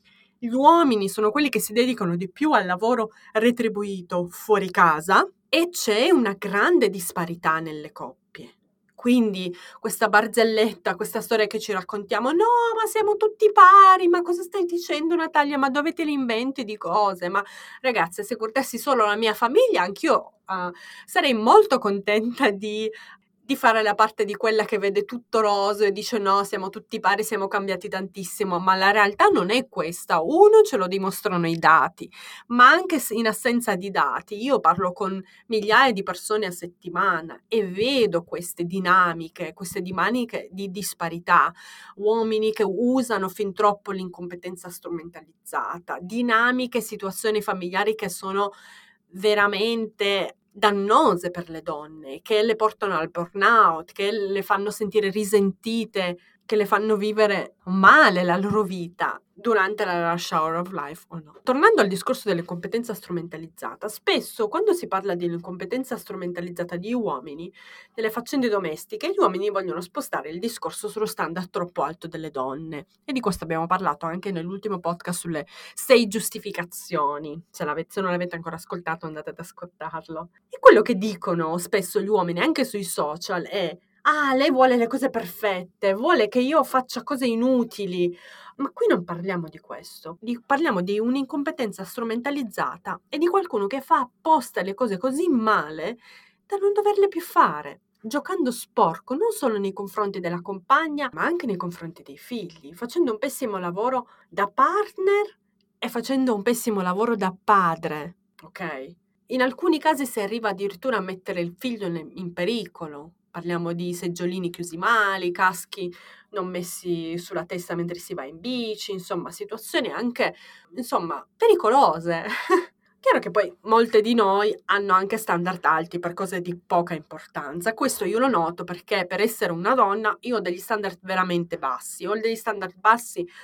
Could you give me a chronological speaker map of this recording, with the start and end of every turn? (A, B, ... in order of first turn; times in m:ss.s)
0:00.4-0:22.9 A
0:23.4-0:48.6 A
0:49.1-2:13.3 A